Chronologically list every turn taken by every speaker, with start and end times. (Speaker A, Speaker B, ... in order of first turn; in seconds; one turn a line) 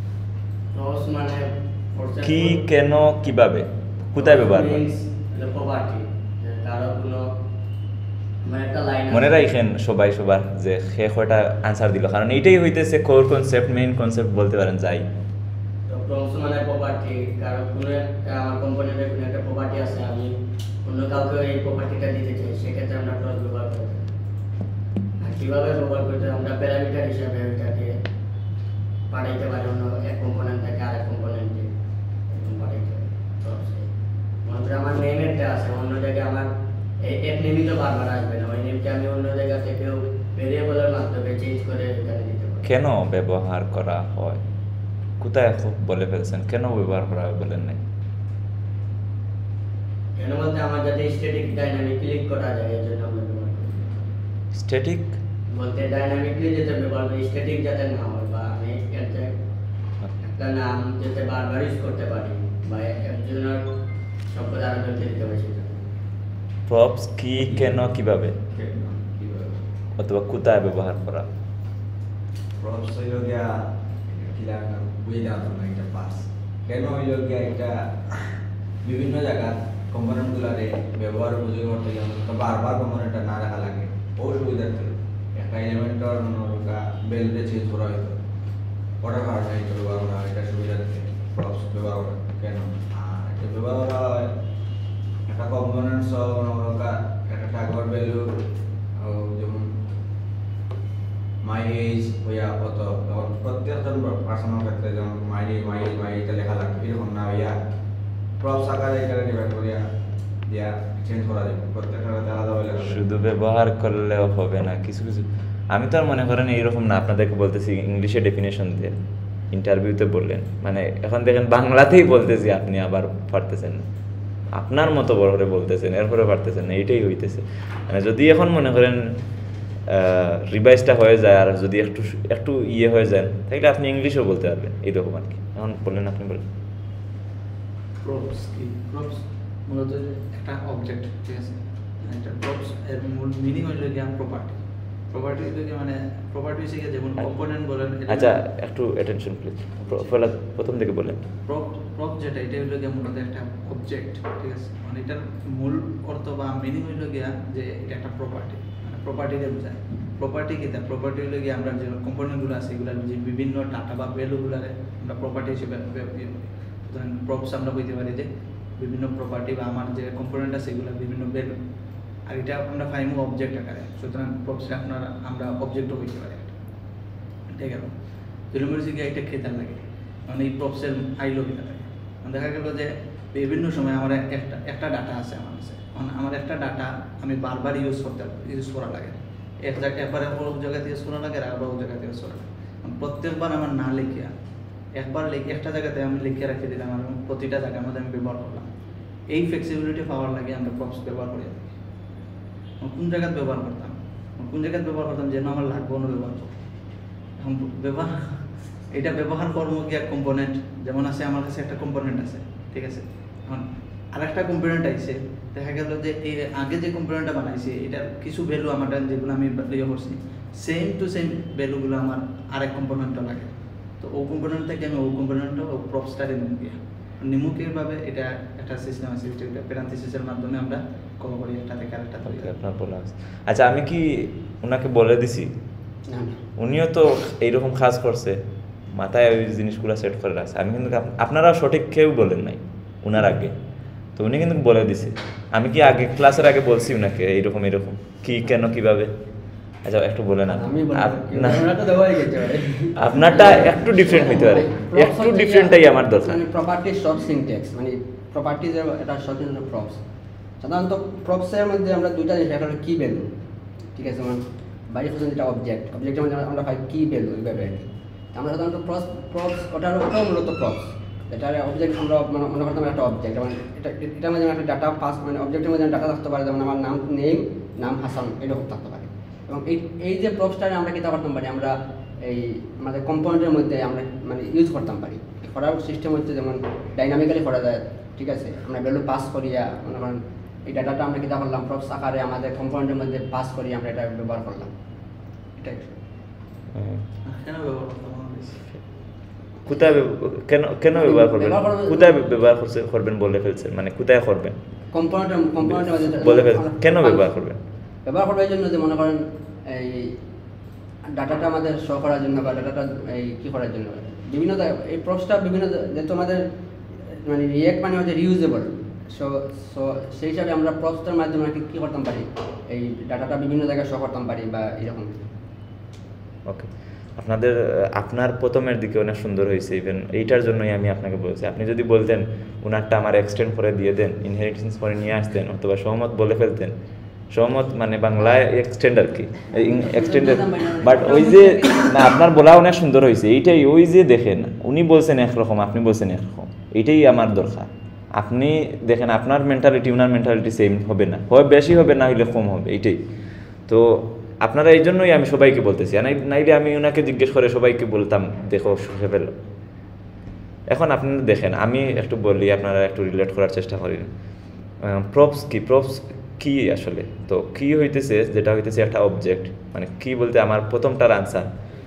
Speaker A: 0.7-2.6
Speaker B: 2.2-4.8
Speaker A: 4.2-7.3
Speaker A: 8.4-9.4
Speaker B: 9.1-15.1
Speaker A: 15.9-24.1
Speaker A: 25.2-28.0
Speaker A: 29.1-31.7
Speaker A: 32.3-33.9
Speaker A: 34.4-42.6
Speaker B: 42.6-44.4
Speaker B: 45.2-47.8
Speaker A: 50.2-54.0
Speaker B: 54.5-55.2
Speaker A: 55.5-59.3
Speaker A: 60.2-63.6
Speaker A: 64.3-65.8
Speaker B: 66.7-68.3
Speaker C: 67.4-67.7
Speaker C: 68.5-69.6
Speaker B: 70.0-71.3
Speaker C: 72.6-88.2
Speaker C: 89.0-94.3
Speaker C: 95.3-98.3
Speaker C: 99.0-99.7
Speaker C: 101.4-107.5
Speaker C: 108.4-109.8
Speaker C: 110.5-113.0
Speaker B: 112.8-119.0
Speaker B: 119.5-123.8
Speaker B: 124.5-129.1
Speaker B: 129.9-136.4
Speaker D: 138.0-148.4
Speaker B: 148.1-151.3
Speaker D: 151.5-171.6
Speaker D: 172.3-176.5
Speaker D: 177.5-177.9
Speaker D: 178.5-194.3
Speaker D: 194.9-198.7
Speaker D: 199.3-201.7
Speaker D: 202.8-206.5
Speaker D: 207.4-232.5
Speaker B: 232.3-235.5
Speaker E: 236.1-236.4
Speaker B: 236.6-238.4
Speaker B: 238.9-243.6
Speaker B: 244.2-249.1
Speaker B: 249.8-251.8
Speaker E: 250.5-260.0
Speaker B: 253.0-256.4
Speaker E: 260.6-263.3
Speaker E: 263.9-294.7
Speaker E: 295.6-295.9
Speaker B: 296.7-297.0
Speaker D: 297.2-298.6
Speaker B: 299.6-304.6
Speaker E: 300.9-302.4
Speaker E: 304.9-307.3
Speaker B: 305.6-307.6
Speaker E: 308.1-310.1
Speaker E: 311.1-316.4
Speaker E: 317.0-325.1
Speaker B: 326.5-336.7
Speaker B: 337.3-353.0
Speaker E: 339.5-342.2
Speaker B: 353.7-359.4
Speaker B: 360.7-364.1
Speaker B: 364.8-371.5